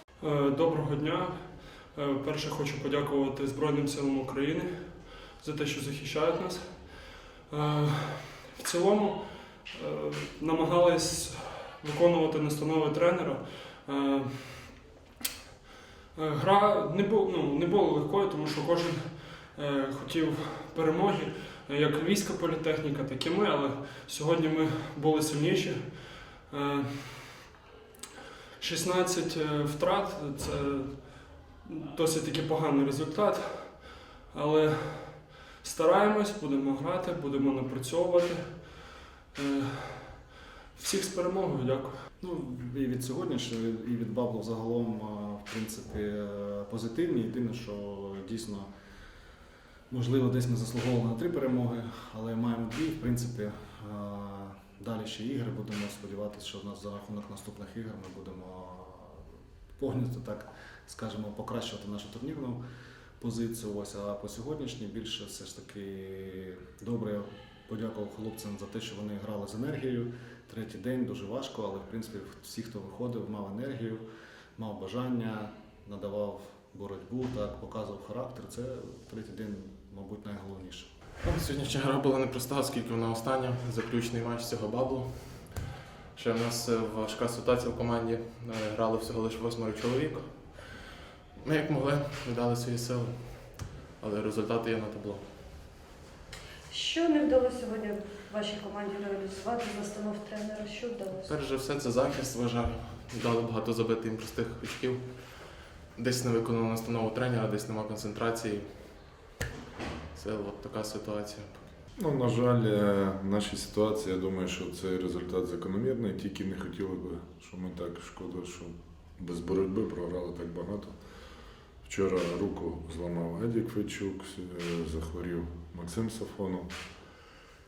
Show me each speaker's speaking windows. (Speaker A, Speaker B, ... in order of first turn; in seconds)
Speaker A: 0.2-14.9, 16.1-27.5, 28.6-42.0
Speaker B: 42.2-49.2, 49.9-62.6, 63.2-80.9
Speaker C: 81.2-90.8, 91.4-95.7, 101.1-109.2, 110.1-111.8
Speaker D: 96.7-101.1
Speaker E: 111.9-126.8